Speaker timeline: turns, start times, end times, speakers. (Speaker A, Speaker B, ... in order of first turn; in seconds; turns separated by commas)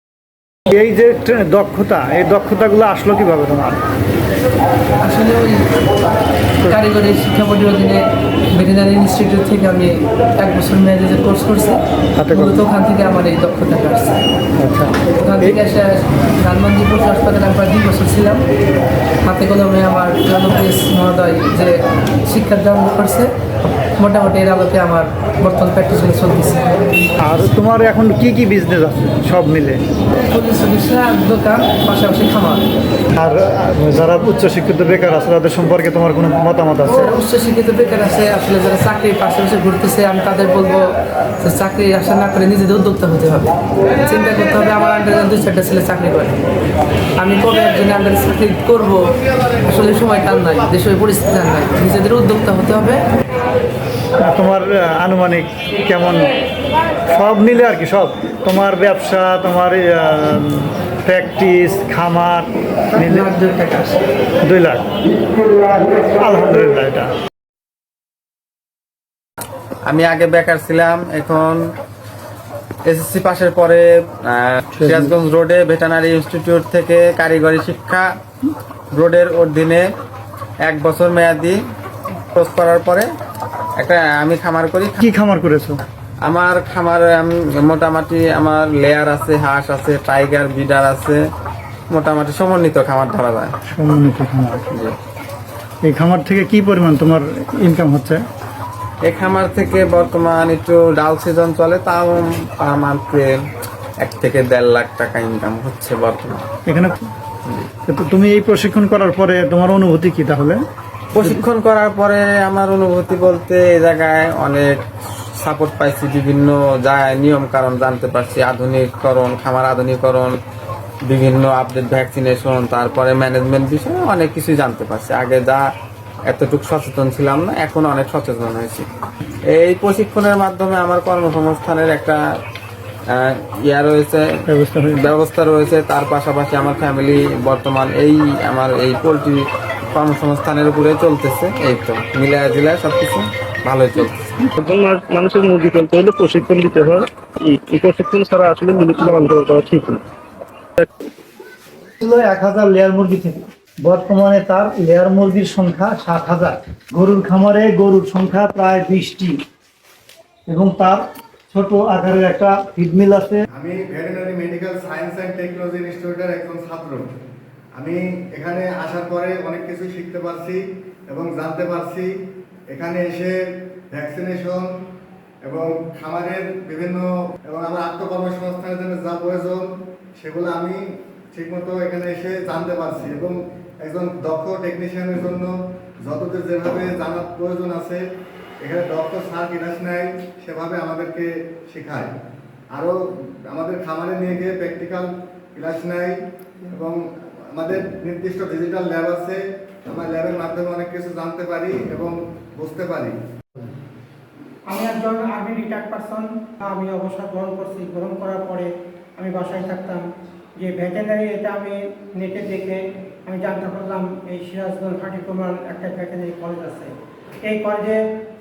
Speaker A: 0.7-3.8, Speaker B: 5.0-5.6, Speaker B: 6.6-14.2, Speaker A: 12.2-12.7, Speaker A: 14.6-15.6, Speaker B: 15.2-18.4, Speaker B: 19.2-23.3, Speaker B: 24.0-26.9, Speaker A: 27.2-29.8, Speaker B: 30.2-32.6, Speaker A: 33.1-37.2, Speaker B: 36.9-46.4, Speaker B: 47.2-53.0, Speaker A: 54.2-56.3, Speaker A: 57.1-63.3, Speaker B: 63.0-64.0, Speaker A: 64.4-67.1, Speaker C: 69.8-71.6, Speaker C: 72.8-78.1, Speaker A: 74.8-75.1, Speaker C: 78.9-79.9, Speaker C: 80.6-81.6, Speaker C: 82.3-83.1, Speaker C: 83.8-85.0, Speaker A: 85.0-85.8, Speaker C: 86.2-91.3, Speaker C: 91.9-93.6, Speaker A: 93.7-94.7, Speaker A: 95.8-98.2, Speaker C: 99.0-103.4, Speaker C: 104.0-106.5, Speaker A: 106.7-107.1, Speaker C: 107.5-107.7, Speaker A: 107.9-110.6, Speaker C: 111.1-114.8, Speaker C: 115.4-120.4, Speaker C: 121.1-125.7, Speaker C: 126.3-128.9, Speaker C: 129.5-132.2, Speaker C: 133.1-134.3, Speaker A: 134.5-135.1, Speaker C: 134.9-139.4, Speaker C: 139.9-144.3, Speaker D: 144.6-150.0, Speaker A: 152.0-159.4, Speaker A: 160.5-163.4, Speaker E: 163.5-167.1, Speaker E: 167.8-172.1, Speaker E: 172.7-173.4, Speaker E: 173.9-174.7, Speaker E: 175.4-188.0, Speaker E: 188.6-192.1, Speaker E: 192.7-203.2, Speaker F: 204.7-210.1, Speaker F: 210.6-216.9, Speaker F: 217.4-218.0